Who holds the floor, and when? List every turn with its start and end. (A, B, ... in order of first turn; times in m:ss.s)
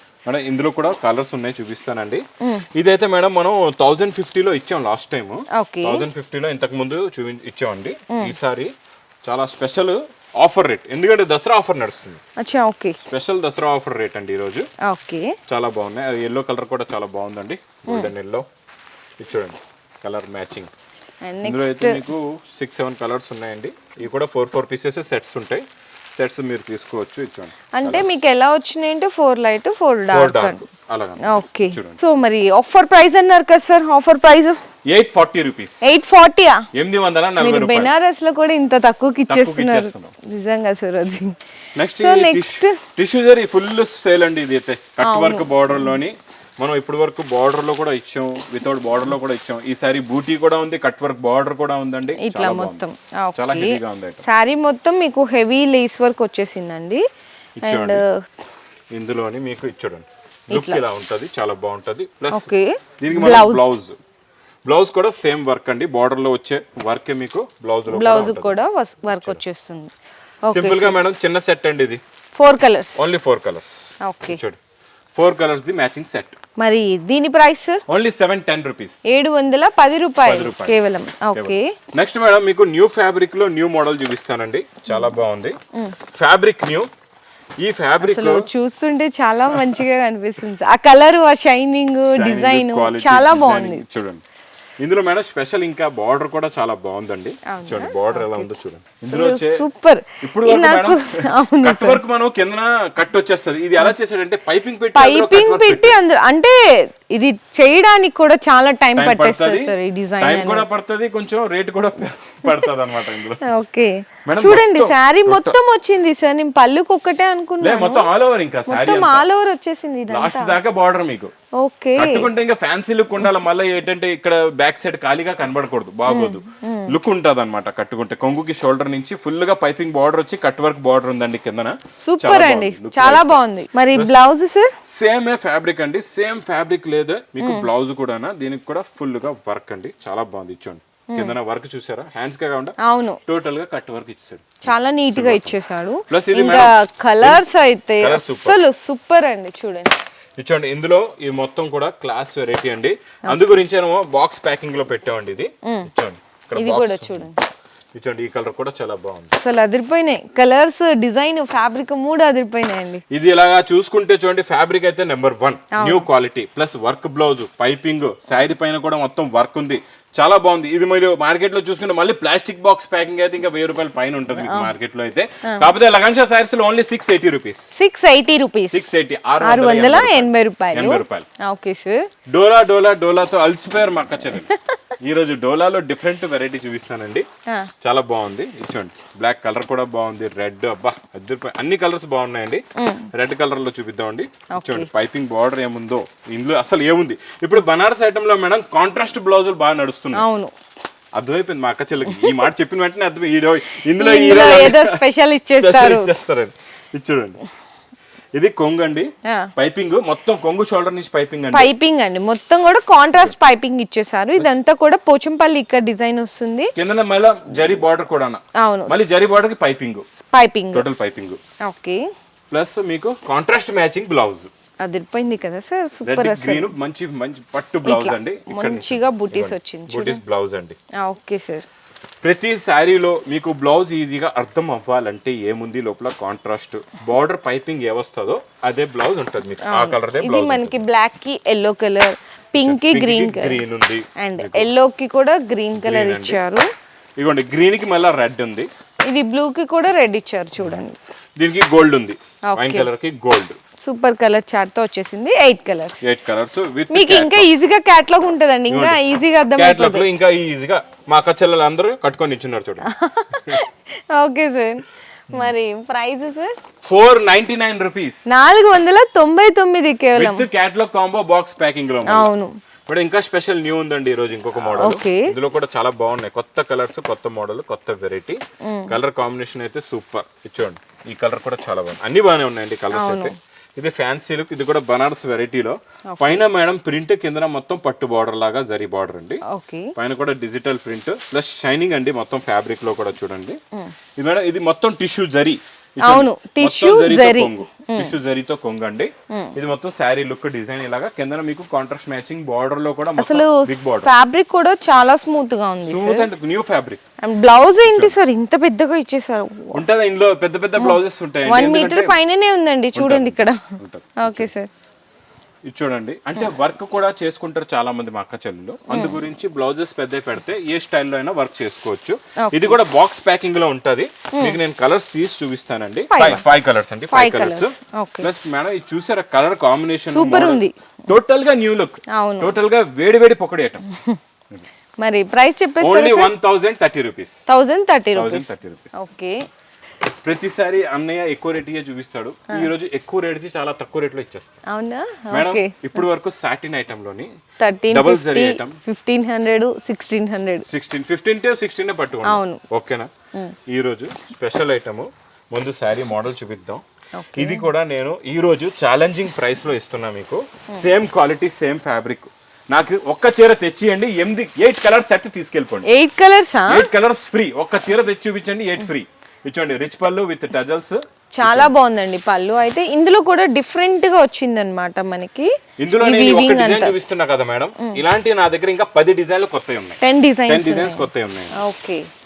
0:00.2-0:08.7 A
0:05.5-0:06.0 B
0:08.1-0:08.4 B
0:09.2-0:12.2 A
0:12.4-0:13.0 B
0:13.0-0:14.7 A
0:14.8-0:15.4 B
0:15.5-0:18.4 A
0:19.2-0:20.7 A
0:21.2-0:22.0 B
0:21.4-0:28.2 A
0:27.7-0:30.6 B
0:30.1-0:32.0 A
0:31.2-0:34.6 B
0:34.9-0:35.8 A
0:35.8-0:36.6 B
0:36.7-0:37.9 A
0:37.4-0:41.3 B
0:39.3-0:40.1 A
0:41.7-0:52.8 A
0:42.0-0:42.8 B
0:45.0-0:46.0 B
0:52.2-0:57.0 B
0:53.3-0:54.2 A
0:57.6-0:58.0 A
0:57.6-0:58.1 B
0:58.9-1:02.5 A
1:00.5-1:00.8 B
1:02.3-1:03.7 B
1:03.0-1:04.0 A
1:04.6-1:09.4 A
1:07.9-1:09.9 B
1:10.4-1:11.0 B
1:10.5-1:12.0 A
1:12.4-1:13.0 B
1:13.0-1:14.6 A
1:14.0-1:14.4 B
1:15.2-1:16.4 A
1:16.6-1:17.8 B
1:17.9-1:19.0 A
1:19.0-1:21.7 B
1:20.2-1:20.8 A
1:21.3-1:25.6 A
1:24.9-1:25.2 B
1:26.1-1:26.9 A
1:27.6-1:28.5 A
1:28.0-1:33.8 B
1:29.5-1:29.8 A
1:32.1-1:34.2 A
1:34.8-1:39.6 A
1:37.5-1:38.5 B
1:39.0-1:42.0 B
1:40.2-1:46.0 A
1:44.9-1:50.6 B
1:48.9-1:53.4 A
1:53.4-1:58.1 B
1:54.2-1:55.6 A
1:57.6-1:59.2 A
1:58.7-2:00.6 B
2:00.1-2:01.3 A
2:01.6-2:02.3 B
2:02.0-2:13.4 A
2:06.0-2:06.9 B
2:12.0-2:14.7 B
2:13.9-2:14.2 A
2:14.8-2:22.8 A
2:17.4-2:17.6 B
2:21.1-2:21.3 B
2:22.8-2:23.2 B
2:23.3-2:27.4 A
2:24.6-2:29.9 B
2:28.0-2:28.6 A
2:30.4-2:37.3 A
2:35.6-2:35.9 B
2:36.6-2:37.4 B
2:37.9-2:39.4 A
2:39.4-2:43.0 B
2:43.1-2:57.7 A
2:45.7-2:46.1 B
2:54.4-2:54.7 B
2:57.7-3:02.0 B
2:58.7-3:01.2 A
3:02.3-3:04.5 A
3:04.5-3:04.8 B
3:05.0-3:07.2 A
3:07.8-3:20.2 A
3:12.8-3:13.1 B
3:14.5-3:14.9 B
3:20.1-3:20.5 B
3:21.1-3:25.0 A
3:24.0-3:26.1 B
3:25.6-3:27.4 A
3:28.4-3:31.7 A
3:31.5-3:36.7 B
3:36.8-3:40.0 A
3:38.6-3:39.0 B
3:40.1-3:40.9 B
3:40.7-3:41.4 A
3:41.6-3:42.0 B
3:42.5-3:44.5 A
3:44.8-3:46.7 B
3:46.0-3:50.8 A
3:47.8-3:50.2 B
3:51.0-3:51.6 B
3:52.2-4:00.8 A
3:59.6-4:03.6 B
4:02.6-4:04.7 A
4:04.2-4:06.6 B
4:05.7-4:06.4 A
4:07.2-4:08.7 A
4:09.1-4:11.0 B
4:11.4-4:13.6 A
4:12.5-4:12.9 B
4:13.8-4:16.0 B
4:16.0-4:17.5 A
4:16.9-4:20.1 B
4:18.7-4:19.0 A
4:19.6-4:22.9 A
4:22.8-4:26.5 B
4:26.8-4:28.3 A
4:28.3-4:30.4 B
4:30.1-4:32.3 A
4:32.0-4:32.5 B
4:32.9-4:49.4 A
4:34.6-4:35.3 B
4:38.6-4:38.9 B
4:42.9-4:43.3 B
4:46.1-4:46.4 B
4:49.5-4:49.9 B
4:49.9-4:53.6 A
4:54.2-5:04.1 A
4:56.0-4:58.1 B
5:03.2-5:06.3 B
5:05.8-5:07.0 A
5:07.2-5:09.8 B
5:07.9-5:08.2 A
5:09.7-5:12.2 A
5:10.8-5:13.6 B
5:12.9-5:14.5 A
5:14.2-5:14.7 B
5:15.7-5:33.8 A
5:18.9-5:19.2 B
5:22.4-5:22.8 B
5:24.3-5:24.6 B
5:26.1-5:26.4 B
5:27.1-5:28.3 B
5:30.1-5:30.7 B
5:32.1-5:32.5 B
5:35.0-5:36.3 B
5:35.8-5:37.4 A
5:37.5-5:39.4 B
5:38.1-5:39.0 A
5:40.2-5:44.6 A
5:44.7-5:45.8 B
5:45.3-5:47.3 A
5:47.6-5:50.7 B
5:47.9-5:48.8 A
5:50.7-5:53.1 A
5:52.2-5:52.6 B
5:53.7-5:56.8 A
5:57.2-5:57.7 B
5:57.3-6:05.9 A
6:05.8-6:06.9 B
6:06.7-6:11.7 A
6:11.4-6:16.9 B
6:15.8-6:21.6 A
6:20.0-6:22.0 B